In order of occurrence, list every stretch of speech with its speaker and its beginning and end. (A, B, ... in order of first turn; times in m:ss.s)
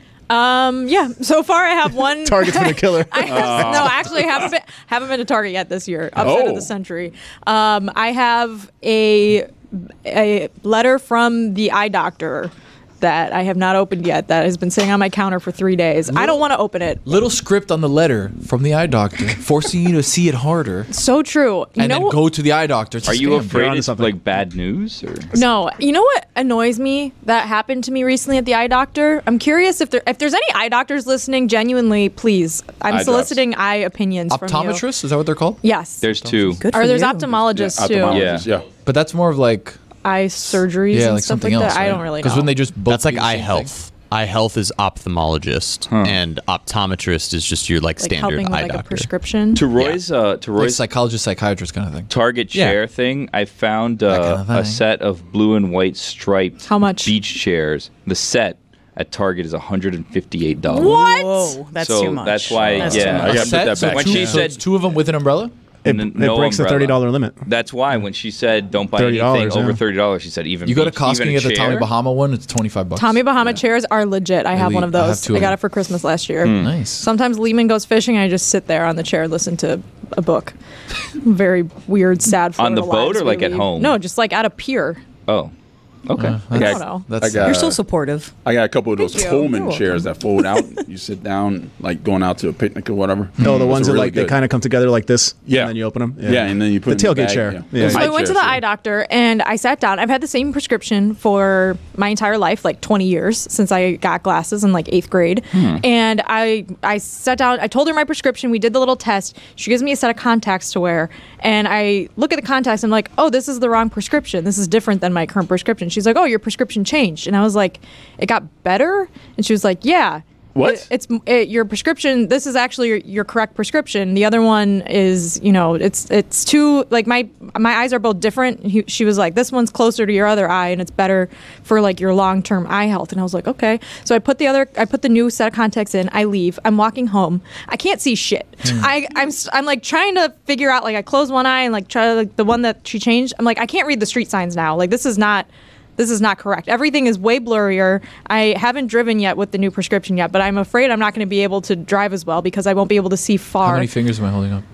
0:00.3-0:17.0 A
0:02.2-0:03.9 B
0:03.2-0:04.5 C
0:06.2-0:06.7 C
0:17.0-0:20.9 D
0:20.9-0:22.2 A
0:21.8-0:23.6 D
0:23.0-0:25.3 E
0:23.5-0:24.2 B
0:25.3-0:34.8 A
0:32.9-0:33.4 C
0:34.3-0:36.6 D
0:35.6-0:36.1 A
0:36.0-0:36.6 E
0:36.6-0:37.4 F
0:36.7-0:38.3 A
0:37.4-0:38.7 C
0:38.1-0:38.5 E
0:38.8-0:39.8 D
0:40.0-0:42.5 A
0:40.5-0:43.7 D
0:42.8-0:49.1 G
0:45.9-0:46.2 E
0:48.0-0:49.6 A
0:49.5-0:50.8 E
0:50.6-0:52.1 D
0:52.1-1:01.0 E
0:54.1-0:54.8 D
0:56.6-0:57.1 A
1:00.7-1:03.5 F
1:00.7-1:01.6 A
1:01.8-1:04.6 E
1:02.8-1:04.4 C
1:02.8-1:05.5 D
1:05.8-1:07.4 B
1:05.8-1:11.9 E
1:08.9-1:09.8 B
1:10.6-1:13.2 D
1:13.0-1:20.5 A
1:14.5-1:15.6 D
1:16.4-1:16.7 E
1:16.6-1:17.0 D
1:21.2-1:25.0 A
1:22.6-1:24.0 E
1:25.3-1:25.5 E
1:26.1-1:26.6 E
1:26.2-1:27.7 D
1:26.5-1:27.8 C
1:26.5-1:27.0 A
1:27.4-1:28.3 F
1:28.4-1:34.4 C
1:29.0-1:29.8 A
1:29.4-1:29.8 F
1:33.4-1:38.1 B
1:35.5-1:38.6 C
1:37.8-2:33.9 A
1:45.5-1:45.8 E
2:00.5-2:00.8 C
2:33.6-2:34.6 D